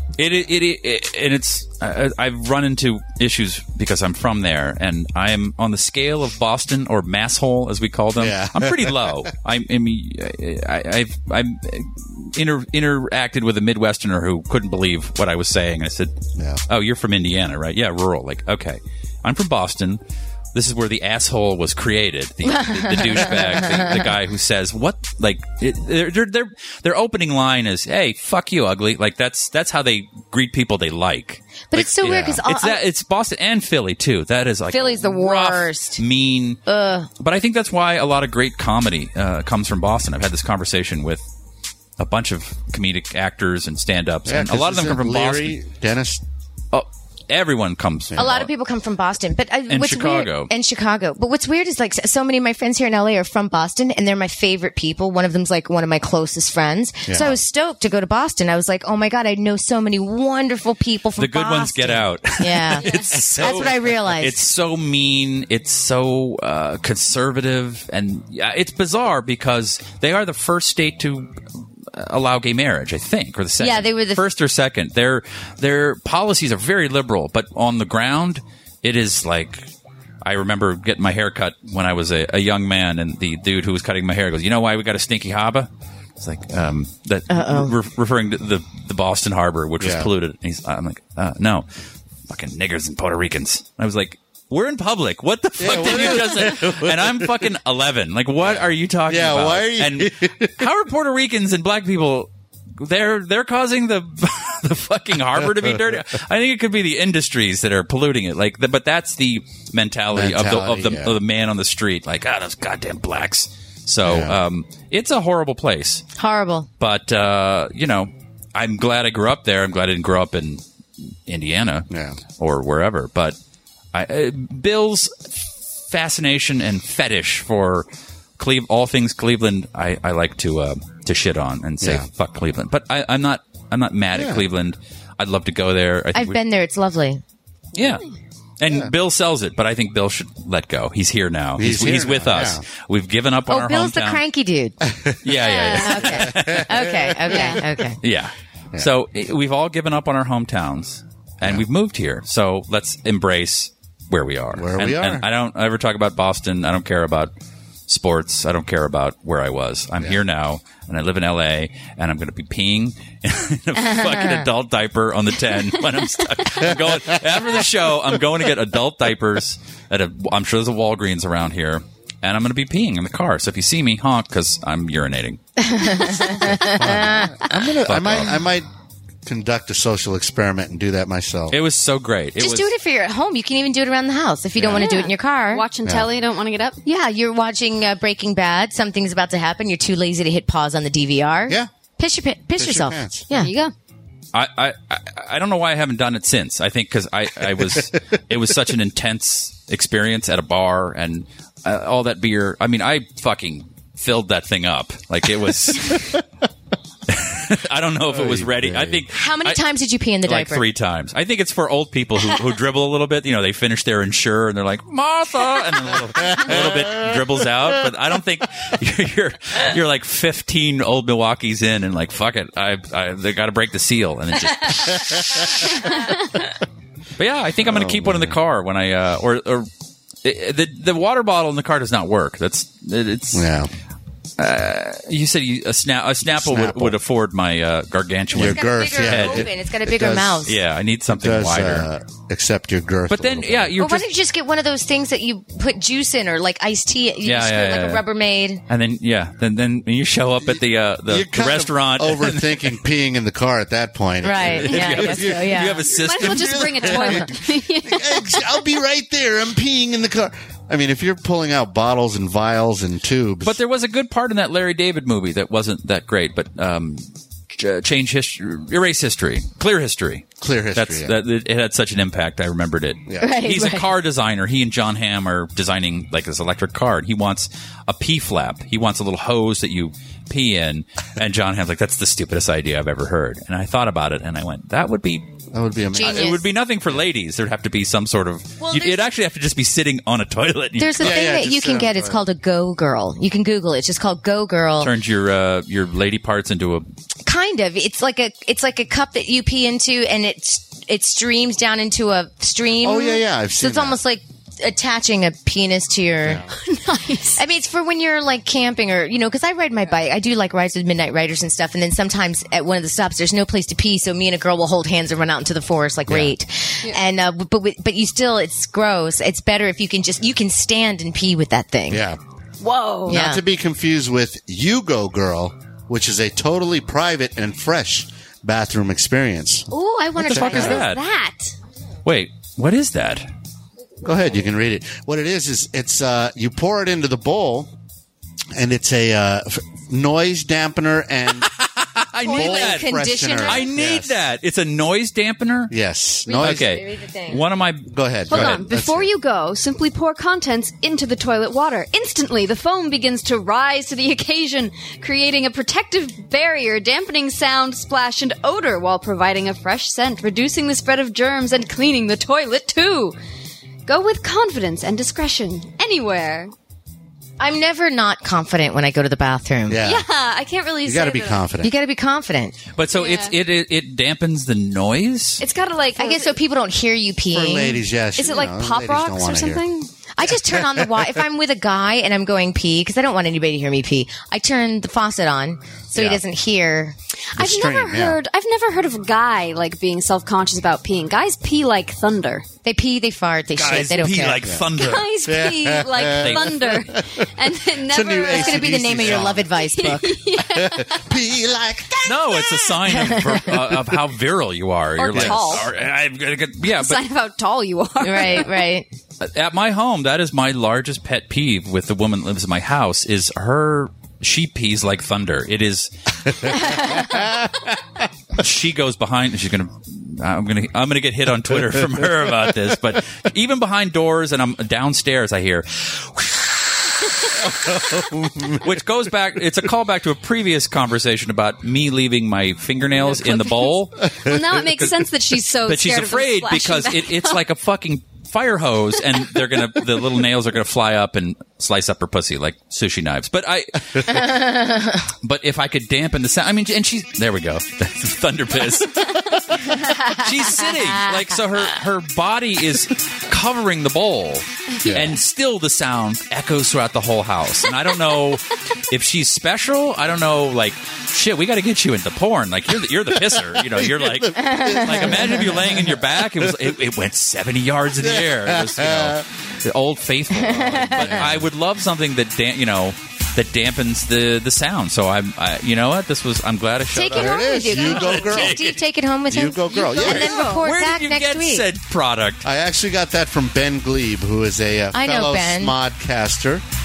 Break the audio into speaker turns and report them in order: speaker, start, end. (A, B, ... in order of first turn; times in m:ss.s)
0:00.2-0:16.2 A
0:08.2-0:09.3 B
0:16.4-0:16.6 B
0:16.7-0:20.0 A
0:20.5-0:36.6 A
0:22.4-0:24.1 C
0:31.7-0:32.8 C
0:34.7-0:36.0 C
0:36.7-0:37.1 C
0:37.2-0:41.2 A
0:42.0-0:45.6 A
0:44.3-0:46.2 B
0:46.7-0:48.5 A
0:48.2-1:04.5 C
0:49.7-0:50.5 A
0:57.1-0:57.4 B
1:01.2-1:19.7 A
1:02.8-1:03.1 D
1:13.6-1:14.2 C
1:20.2-1:31.7 A
1:27.3-1:27.8 C
1:29.8-1:30.1 B
1:32.3-1:56.0 A
1:35.6-1:37.5 B
1:38.4-1:40.7 B
1:50.1-1:51.2 B
1:54.0-1:54.4 B
1:56.2-1:56.7 C
1:56.8-2:00.6 A
2:01.3-2:03.4 A
2:01.9-2:02.2 B
2:03.9-2:07.9 A
2:08.4-2:16.4 A
2:11.8-2:12.1 B
2:14.1-2:14.4 B
2:16.2-2:17.2 C
2:17.8-2:18.0 A
2:17.8-2:18.1 D
2:18.6-2:24.2 A
2:18.7-2:18.9 B
2:21.6-2:22.6 B
2:23.5-2:24.8 C
2:24.8-2:25.2 B
2:25.2-2:27.5 A
2:25.4-2:26.0 D
2:25.7-2:28.0 C
2:26.0-2:26.9 B
2:27.3-2:27.6 D
2:28.0-2:37.3 A
2:34.5-2:35.3 B
2:37.9-2:55.4 A
2:44.0-2:44.2 C
2:55.6-2:57.4 C
2:56.0-2:56.7 D
2:56.8-2:58.7 B
2:57.8-2:58.4 A
2:59.2-3:01.6 B
3:01.5-3:02.7 A
3:02.4-3:05.7 C
3:04.6-3:04.9 B
3:04.8-3:06.8 D
3:06.9-3:13.5 C
3:12.6-3:13.3 B
3:13.3-3:13.7 D
3:14.3-3:26.2 A
3:27.1-3:29.6 A
3:28.1-3:29.0 B
3:29.1-3:30.6 C
3:30.2-3:46.0 A
3:36.2-3:37.2 B
3:45.8-3:46.1 D
3:47.2-3:49.7 A
3:47.6-3:48.4 B
3:50.2-3:53.5 A
3:53.3-3:53.7 B
3:54.4-3:59.5 A
3:56.2-3:57.0 B
3:58.3-4:00.5 B
3:58.4-4:00.6 C
4:00.5-4:01.9 A
4:01.1-4:03.8 B
4:03.1-4:04.1 A
4:03.8-4:08.6 C
4:07.2-4:08.0 A
4:08.7-4:12.8 A
4:11.1-4:17.3 B
4:14.2-4:15.9 C
4:14.5-4:16.9 A
4:15.9-4:18.5 D
4:17.8-4:23.6 B
4:23.4-4:45.3 A
4:30.4-4:31.2 B
4:33.1-4:33.4 B
4:33.2-4:33.9 C
4:45.5-4:46.4 B
4:46.0-4:46.4 C
4:46.0-4:51.2 A
4:48.7-4:49.0 C
4:50.8-4:54.9 C
4:51.0-4:52.2 B
4:54.8-4:56.9 A
4:57.3-5:06.4 C
5:02.8-5:04.0 B
5:06.2-5:06.5 B
5:06.6-5:07.4 D
5:07.4-5:22.0 C
5:16.1-5:16.3 B
5:21.9-5:22.2 B
5:22.6-5:23.2 D
5:23.0-5:23.4 C
5:23.1-5:29.7 B
5:29.7-5:31.0 C
5:30.2-5:31.0 A
5:30.2-5:31.5 D
5:30.3-5:30.8 B
5:32.1-5:33.3 A
5:34.0-5:37.7 B
5:38.6-5:41.5 B
5:41.4-5:45.7 A
5:42.2-5:43.7 C
5:42.3-5:44.2 B
5:45.7-5:46.8 B
5:46.3-5:47.4 C
5:46.4-5:48.6 A
5:47.9-5:49.1 B
5:48.3-6:03.2 D
6:03.9-6:06.5 D
6:07.4-6:09.8 C
6:09.7-6:10.1 B
6:09.8-6:11.4 D
6:10.8-6:11.7 B
6:11.6-6:12.6 C
6:12.8-6:15.4 A
6:12.9-6:13.4 D
6:15.4-6:16.4 D
6:16.0-6:17.8 C
6:17.3-6:19.6 B
6:18.2-6:19.9 D
6:20.2-6:27.0 C
6:20.7-6:20.9 B
6:26.0-6:26.2 B
6:27.3-6:32.5 D
6:27.4-6:28.2 B
6:32.6-6:34.4 C
6:33.6-6:35.1 A
6:34.4-6:34.7 B
6:34.8-6:41.1 D
6:35.2-6:37.3 B
6:36.2-6:36.6 A
6:37.9-6:39.5 B
6:38.3-6:40.2 C
6:40.4-6:42.6 B
6:42.0-6:47.0 A
6:42.9-6:43.5 C
6:45.0-6:45.7 D
6:45.2-6:45.6 B
6:46.8-6:48.6 D
6:48.0-6:48.9 C
6:49.2-6:57.2 A
6:56.6-6:57.0 C
6:58.4-7:24.3 A
7:07.4-7:08.6 B
7:13.0-7:17.4 D
7:24.1-7:25.1 C
7:25.2-7:58.8 A
7:34.8-7:35.2 B
7:43.3-7:46.7 B
7:44.4-7:45.4 C
7:48.0-7:49.3 B
7:50.4-7:51.3 C
7:50.8-7:51.5 B
7:56.9-8:01.7 C
7:56.9-7:58.7 B
7:59.3-8:00.3 B
7:59.7-8:00.7 D
8:00.0-8:02.5 A
8:02.4-8:06.6 B
8:04.9-8:05.8 C